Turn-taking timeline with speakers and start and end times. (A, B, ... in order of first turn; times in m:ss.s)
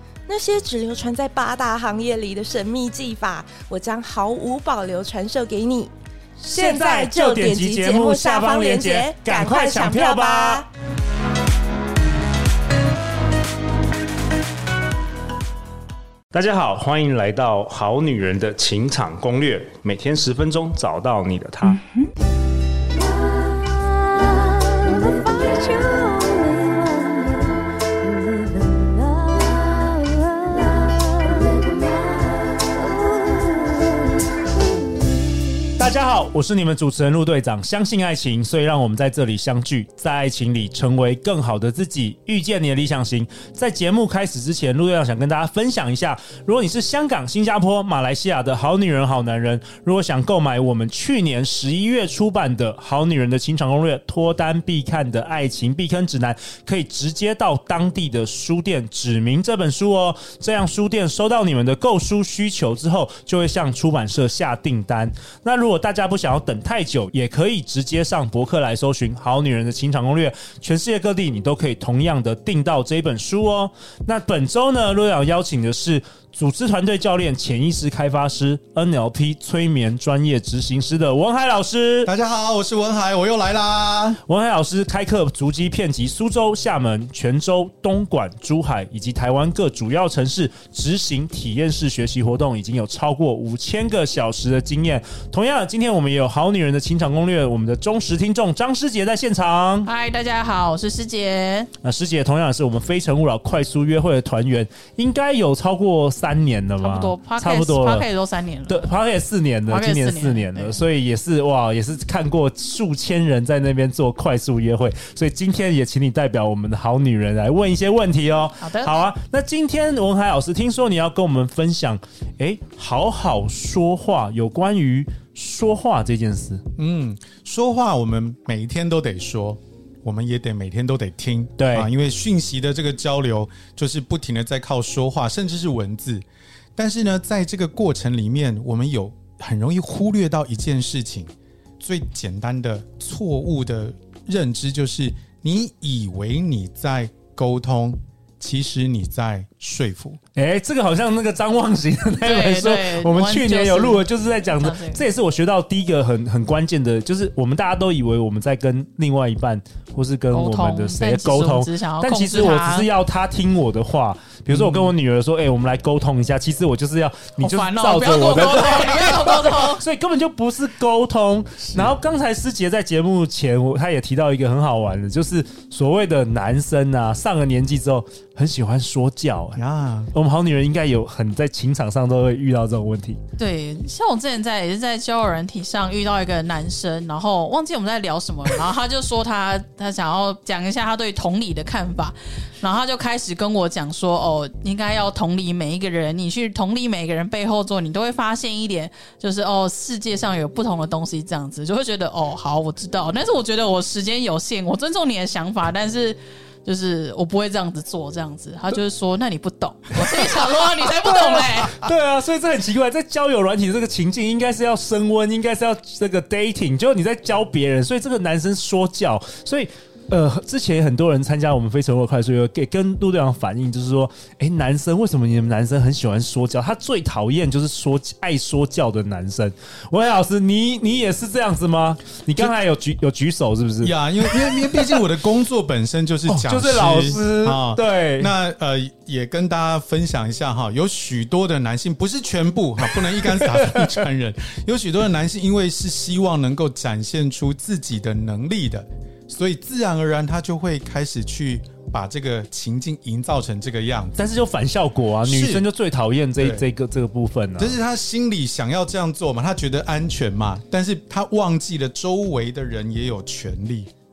0:00.3-0:05.9 A
0:06.4-0:10.7 B
0:06.5-0:10.7 A
0:16.3-0:21.8 B
0:25.7-0:26.0 A
0:35.7-1:22.1 B
1:22.0-1:24.2 C
1:24.2-1:39.9 B
1:39.8-1:41.7 D
1:41.8-1:48.0 B
1:46.8-1:48.9 D
1:48.7-2:06.6 B
1:49.7-1:50.8 D
1:58.6-1:59.0 D
2:06.8-2:16.2 C
2:11.6-2:11.9 B
2:16.8-2:30.2 C
2:30.4-2:59.6 B
2:32.2-2:35.0 D
2:40.3-2:42.9 D
2:44.5-2:44.9 C
2:47.4-2:49.8 D
2:51.6-2:51.9 C
2:59.6-3:00.1 C
3:00.1-3:03.2 B
3:03.4-3:31.8 D
3:31.0-3:55.0 B
3:53.8-4:14.2 C
3:56.3-3:58.3 B
4:02.9-4:04.0 B
4:14.2-4:17.8 B
4:15.2-4:15.7 C
4:16.4-4:16.6 C
4:17.6-4:23.9 C